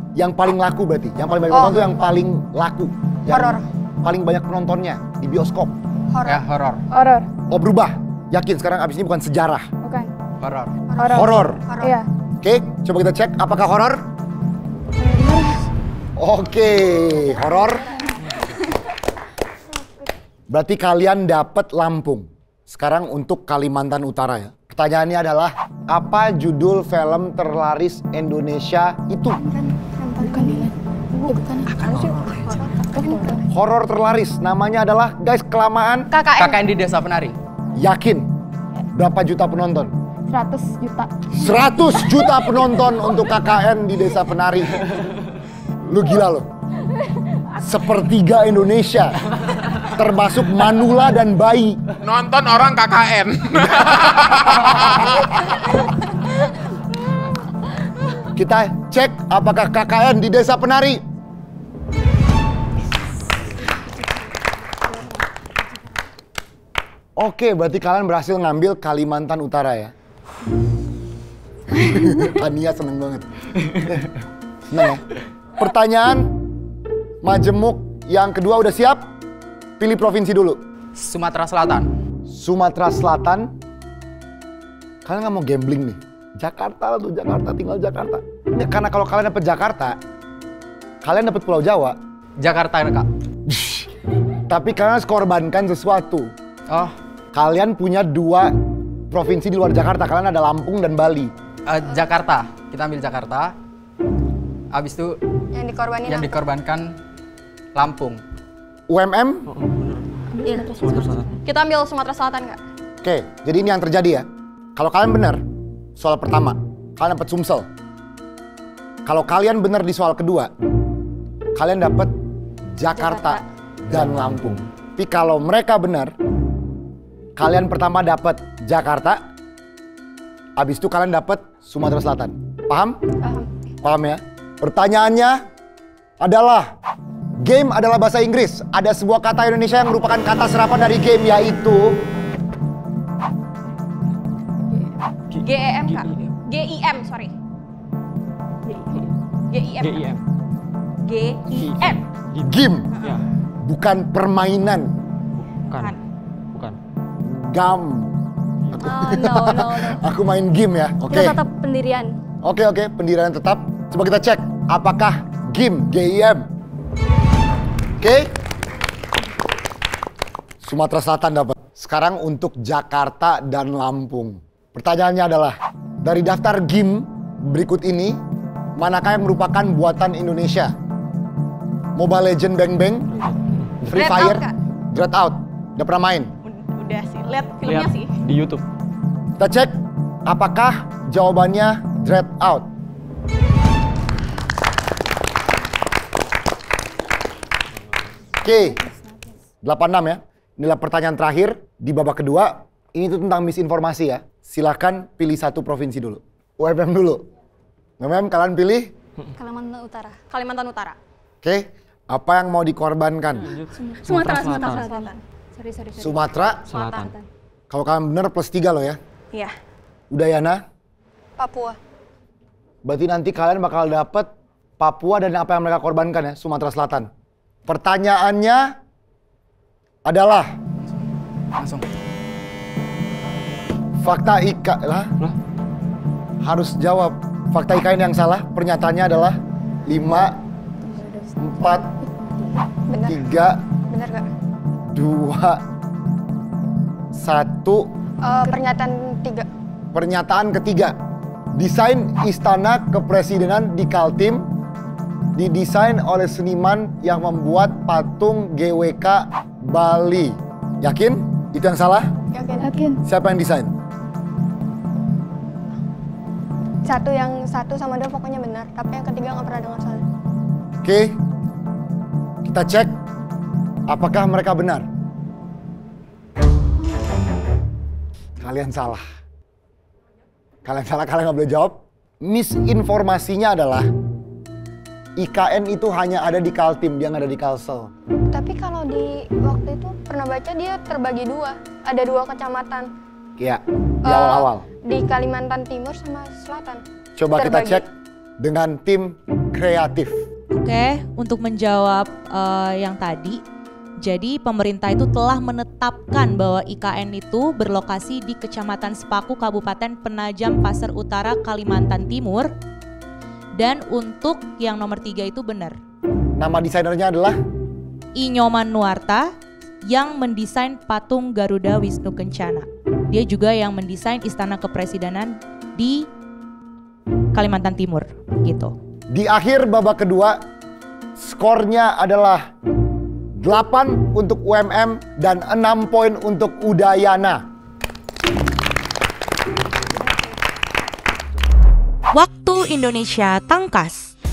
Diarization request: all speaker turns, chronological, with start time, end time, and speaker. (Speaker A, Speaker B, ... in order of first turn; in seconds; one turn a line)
Speaker A: 0.1-5.8
Speaker B: 1.5-1.9
Speaker B: 3.3-3.6
Speaker B: 6.1-6.5
Speaker C: 6.2-6.8
Speaker D: 6.9-7.3
Speaker A: 7.5-9.7
Speaker D: 9.8-10.1
Speaker C: 10.4-10.7
Speaker B: 10.9-12.0
Speaker D: 11.0-12.1
Speaker A: 11.1-11.6
Speaker A: 12.4-14.0
Speaker D: 15.0-15.5
Speaker A: 16.2-17.9
Speaker A: 20.5-29.4
Speaker B: 29.3-30.7
Speaker D: 30.2-33.4
Speaker B: 31.2-33.4
Speaker E: 32.1-32.6
Speaker A: 33.5-36.1
Speaker B: 36.1-36.7
Speaker C: 36.4-37.4
Speaker A: 37.8-38.3
Speaker A: 38.9-39.9
Speaker D: 40.3-42.3
Speaker A: 41.3-45.0
Speaker A: 45.8-46.5
Speaker A: 47.6-49.2
Speaker A: 49.7-51.8
Speaker F: 52.0-55.2
Speaker A: 54.5-54.9
Speaker A: 58.3-61.0
Speaker A: 67.2-69.9
Speaker A: 71.7-74.1
Speaker A: 74.7-75.0
Speaker A: 75.6-76.4
Speaker A: 77.2-79.1
Speaker A: 79.8-80.6
Speaker C: 81.0-81.9
Speaker A: 82.3-83.5
Speaker A: 85.0-90.0
Speaker A: 91.0-92.0
Speaker C: 92.4-93.1
Speaker A: 93.5-93.9
Speaker A: 94.5-96.3
Speaker C: 96.7-96.9
Speaker A: 97.3-98.5
Speaker A: 99.1-101.3
Speaker C: 101.7-103.5
Speaker C: 104.7-105.2
Speaker B: 105.5-106.5
Speaker C: 106.0-106.9
Speaker C: 107.7-108.2
Speaker A: 108.9-109.5
Speaker E: 109.5-111.3
Speaker G: 110.4-111.3
Speaker H: 111.4-112.6
Speaker A: 113.0-115.4
Speaker A: 116.0-117.7
Speaker A: 119.0-120.5
Speaker A: 121.5-122.1
Speaker A: 122.7-126.1
Speaker G: 122.9-123.4
Speaker E: 123.9-124.6
Speaker A: 127.4-129.2
Speaker A: 130.6-133.0
Speaker B: 133.2-133.5
Speaker A: 133.8-135.4
Speaker A: 136.2-136.7
Speaker A: 137.4-142.1
Speaker E: 145.3-146.3
Speaker H: 145.4-147.3
Speaker H: 149.5-150.1
Speaker E: 149.8-150.2
Speaker H: 151.0-152.0
Speaker E: 151.5-153.2
Speaker A: 152.4-152.9
Speaker A: 153.6-154.9
Speaker E: 155.3-155.9
Speaker H: 155.7-156.0
Speaker A: 157.2-158.2
Speaker E: 158.7-159.0
Speaker A: 158.7-161.4
Speaker G: 158.8-160.0
Speaker G: 161.0-162.1
Speaker A: 162.4-166.5
Speaker A: 168.0-168.3
Speaker A: 170.6-178.2
Speaker A: 178.8-180.7
Speaker A: 181.9-183.1
Speaker E: 183.1-183.9
Speaker A: 183.8-186.3
Speaker H: 183.9-184.5
Speaker H: 186.4-188.1
Speaker E: 187.6-188.6
Speaker A: 189.4-192.7
Speaker E: 197.8-198.1
Speaker A: 198.4-198.8
Speaker D: 198.4-199.3
Speaker A: 199.6-207.3
Speaker A: 208.0-208.9
Speaker G: 209.3-210.2
Speaker H: 210.3-211.0
Speaker A: 211.4-213.5
Speaker E: 213.4-214.9
Speaker G: 213.7-216.3
Speaker H: 214.2-215.2
Speaker A: 216.0-216.7
Speaker E: 216.7-217.2
Speaker H: 216.7-217.1
Speaker G: 216.9-217.2
Speaker A: 217.7-219.0
Speaker A: 220.1-220.6
Speaker B: 221.4-221.8
Speaker A: 222.8-227.1
Speaker A: 227.7-228.8
Speaker A: 230.0-230.6
Speaker C: 231.6-231.9
Speaker A: 234.0-235.1
Speaker A: 236.4-240.4
Speaker D: 240.8-242.7
Speaker A: 241.4-241.9
Speaker B: 242.9-243.2
Speaker A: 243.0-243.6
Speaker B: 243.9-244.3
Speaker A: 244.9-245.6
Speaker A: 247.1-247.9
Speaker B: 248.2-249.5
Speaker A: 249.9-251.0
Speaker A: 251.5-254.5
Speaker A: 255.3-262.1
Speaker B: 262.3-262.8
Speaker D: 262.5-263.0
Speaker A: 263.0-263.7
Speaker B: 266.8-270.0
Speaker A: 270.8-271.2
Speaker A: 272.4-272.9
Speaker A: 273.9-274.9
Speaker A: 278.4-279.0
Speaker A: 280.6-283.9
Speaker A: 285.2-287.9
Speaker B: 288.3-292.9
Speaker A: 293.4-294.6
Speaker B: 294.0-296.8
Speaker A: 297.2-300.2
Speaker B: 297.3-297.8
Speaker I: 300.5-303.4
Speaker I: 304.0-312.5
Speaker I: 313.6-315.8
Speaker A: 316.4-317.4
Speaker I: 318.1-319.3
Speaker I: 319.8-326.1
Speaker I: 327.3-328.7
Speaker A: 329.1-330.5
Speaker A: 331.2-332.5
Speaker A: 333.4-337.5
Speaker I: 342.1-344.1